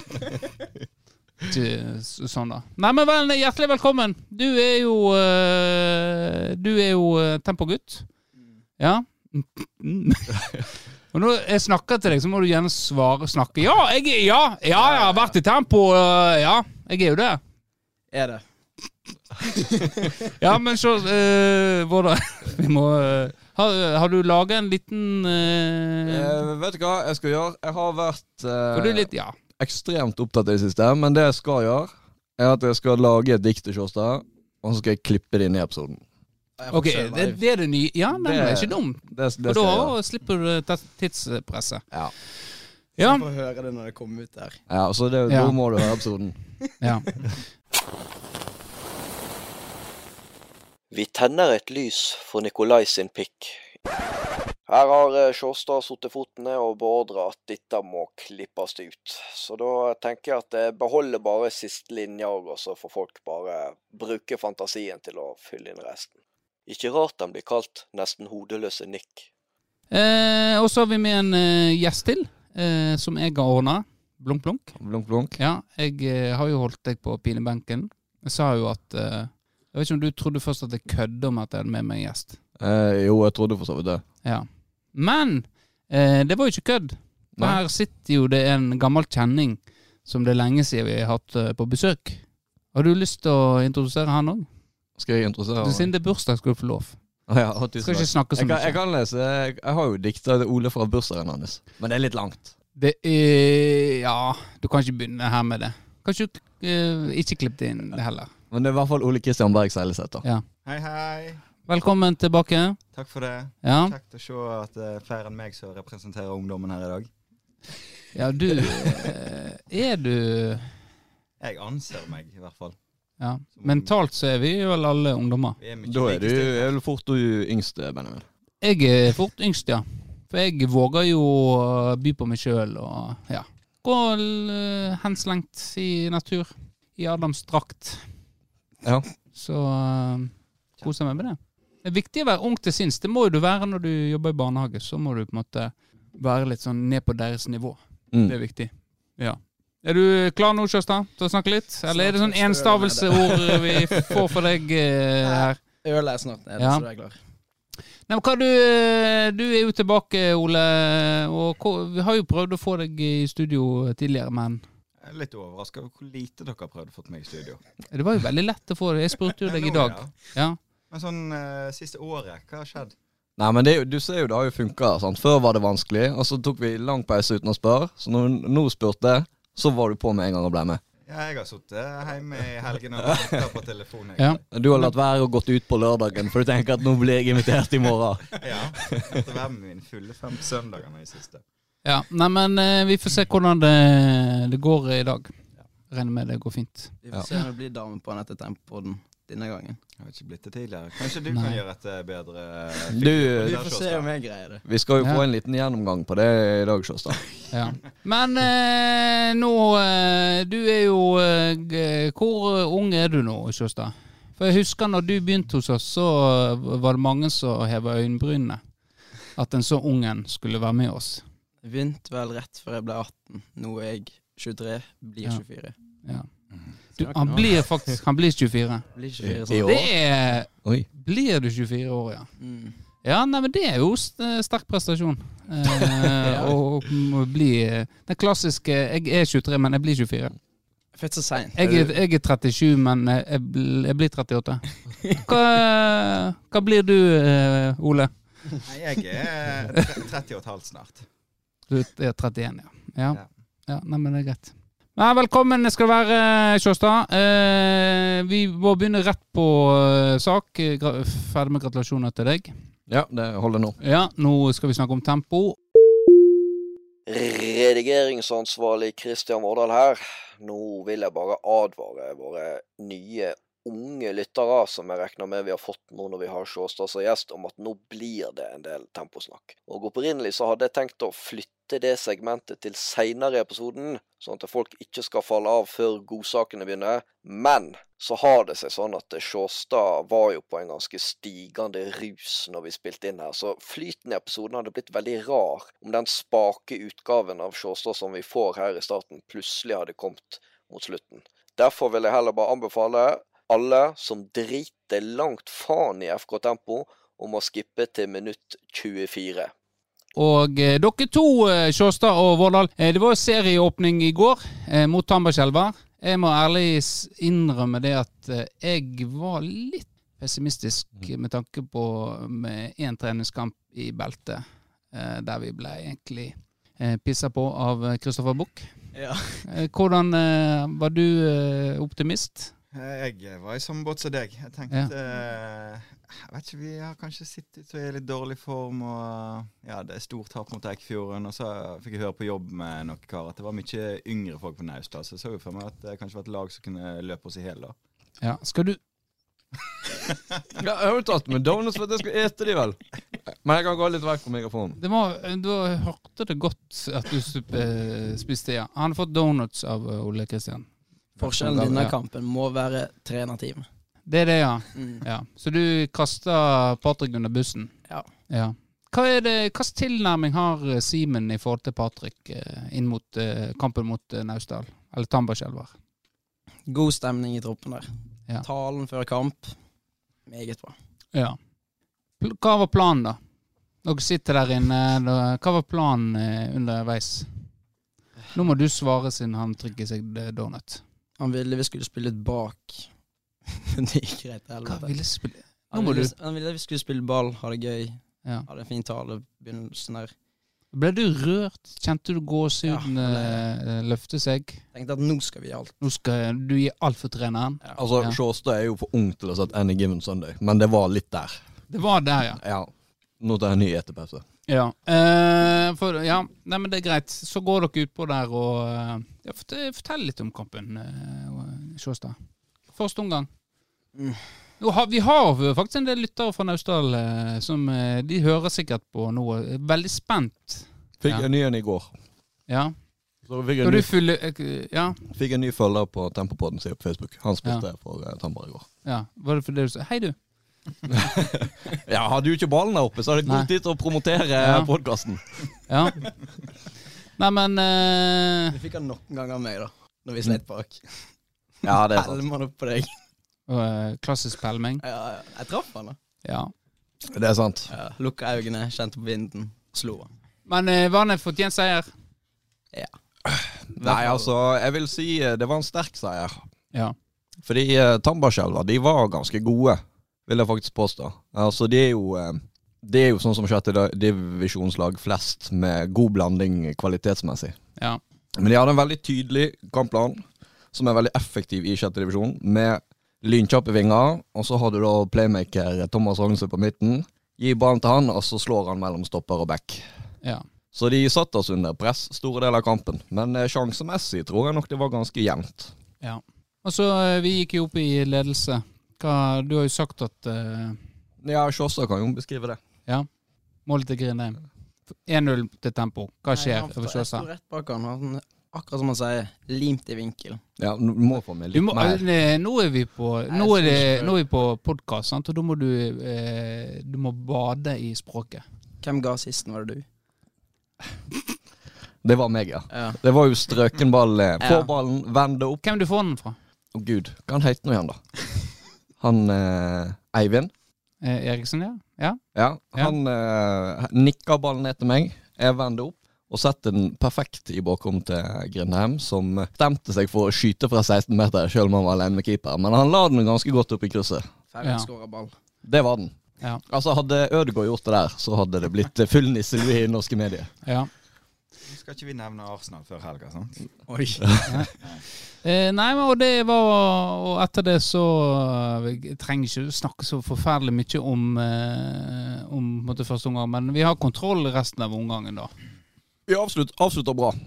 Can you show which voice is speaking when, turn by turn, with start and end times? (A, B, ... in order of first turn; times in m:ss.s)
0:01.4-0:08.1 A
0:08.8-0:10.6 A
0:11.1-0:17.4 A
0:14.8-0:15.4 B
0:18.1-0:18.4 B
0:19.8-0:20.1 B
0:20.2-0:26.4 A
0:26.1-0:36.0 C
0:28.7-0:29.4 A
0:36.6-0:37.4 B
0:36.7-0:41.8 A
0:38.1-0:40.0 C
0:43.0-0:43.2 A
0:43.0-0:44.6 B
0:44.7-0:46.4 C
0:45.3-0:45.6 A
0:46.8-0:47.1 A
0:50.9-0:53.7 D
0:54.7-1:06.1 D
1:06.7-1:09.3 D
1:09.9-1:14.8 A
1:14.8-1:15.4 C
1:15.4-1:22.4 A
1:22.6-1:24.0 C
1:24.2-1:32.2 A
1:32.7-1:34.5 A
1:35.0-1:35.9 C
1:35.6-1:37.0 A
1:37.3-1:42.5 C
1:37.8-1:38.8 A
1:42.8-1:48.3 A
1:48.5-1:50.2 C
1:50.6-1:51.4 E
1:51.7-1:52.8 A
1:52.9-1:57.1 E
1:53.6-1:54.0 A
1:58.1-2:00.7 A
2:01.4-2:02.8 E
2:03.2-2:05.6 A
2:03.6-2:03.9 E
2:05.6-2:06.7 E
2:05.8-2:08.2 C
2:08.6-2:18.0 A
2:19.4-2:35.6 A
2:31.9-2:34.0 B
2:35.2-2:37.2 B
2:36.6-2:36.8 A
2:38.1-2:44.6 A
2:45.0-2:47.6 E
2:47.9-2:50.6 A
2:49.4-2:50.2 E
2:50.9-2:52.9 E
2:53.4-3:00.8 C
3:01.1-3:04.4 E
3:03.0-3:03.4 C
3:04.2-3:04.9 A
3:04.5-3:09.2 C
3:08.4-3:11.4 E
3:11.8-3:15.3 A
3:15.9-3:16.9 A
3:17.0-3:19.8 B
3:20.0-3:24.1 E
3:21.3-3:21.6 A
3:22.9-3:23.6 C
3:23.4-3:24.6 B
3:24.6-3:27.2 C
3:27.5-3:38.6 A
3:39.4-3:41.2 A
3:41.6-3:45.8 B
3:47.0-3:48.8 A
3:47.0-3:47.6 B
3:49.0-3:49.8 B
3:49.2-3:49.9 C
3:49.6-3:52.3 A
3:52.4-3:52.8 B
3:53.0-4:00.4 A
3:55.9-3:56.5 B
4:00.9-4:01.9 B
4:01.6-4:08.1 A
4:08.6-4:11.0 E
4:11.7-4:22.5 A
4:22.9-4:23.8 C
4:23.8-4:25.6 A
4:27.1-5:09.5 D
5:10.2-5:28.7 A
5:28.9-5:29.5 B
5:29.4-5:32.5 A
5:32.7-5:47.8 E
5:48.2-5:48.8 A
5:50.5-5:52.8 C
5:53.4-5:54.8 C
5:54.8-6:00.7 A
6:01.2-6:01.9 C
6:01.2-6:03.6 B
6:04.1-6:07.7 A
6:04.8-6:05.0 B
6:08.3-6:15.7 A
6:16.7-6:17.9 B
6:18.4-6:19.6 B
6:20.3-6:20.8 B
6:22.2-6:23.2 A
6:23.8-6:27.3 A
6:28.3-6:30.8 A
6:31.2-6:32.9 B
6:33.5-6:35.0 B
6:34.6-6:36.1 A
6:35.7-6:40.1 B
6:40.7-6:44.6 A
6:42.6-6:43.4 B
6:44.7-6:45.8 B
6:45.8-6:48.2 A
6:47.8-6:51.4 C
6:51.7-6:52.4 A
6:52.4-6:54.2 C
6:54.5-7:02.2 A
7:02.7-7:03.3 A
7:04.0-7:04.2 B
7:04.6-7:11.3 A
7:11.0-7:11.9 C
7:12.5-7:12.7 A
7:13.3-7:13.9 C
7:13.6-7:15.0 A
7:15.1-7:18.7 C
7:18.8-7:20.2 A
7:20.9-7:25.2 C
7:23.2-7:23.5 A
7:24.4-7:24.7 A
7:25.7-7:26.1 A
7:27.2-7:28.6 A
7:28.5-7:31.1 B
7:31.6-7:32.9 B
7:31.6-7:32.2 C
7:33.5-7:34.8 A
7:34.8-7:36.0 B
7:36.2-7:36.5 A
7:37.1-7:37.7 C
7:37.7-7:40.1 B
7:40.5-7:41.9 A
7:43.3-7:46.4 C
7:43.8-7:44.3 B
7:47.4-7:57.6 C
7:58.4-8:00.2 C
8:00.7-8:09.9 C
8:10.7-8:15.7 C
8:16.0-8:20.8 A
8:21.2-8:22.6 C
8:23.7-8:24.4 A
8:25.0-8:27.3 A
8:26.3-8:30.4 B
8:30.6-8:32.0 C
8:31.5-8:38.4 A
8:33.3-8:34.2 B
8:38.8-8:39.8 B
8:42.0-8:45.6 C
8:42.7-8:43.0 B
8:44.4-8:44.7 B
8:45.6-8:46.4 A
8:46.7-8:48.0 C
8:49.0-8:50.5 C
8:51.0-8:52.2 A
8:52.4-9:04.2 C
9:04.5-9:05.3 B
9:05.6-9:06.2 C
9:06.7-9:10.5 C
9:10.6-9:10.9 A
9:11.7-9:13.7 E
9:13.9-9:14.7 B
9:14.5-9:14.7 A
9:15.4-9:25.5 A
9:26.3-9:27.4 C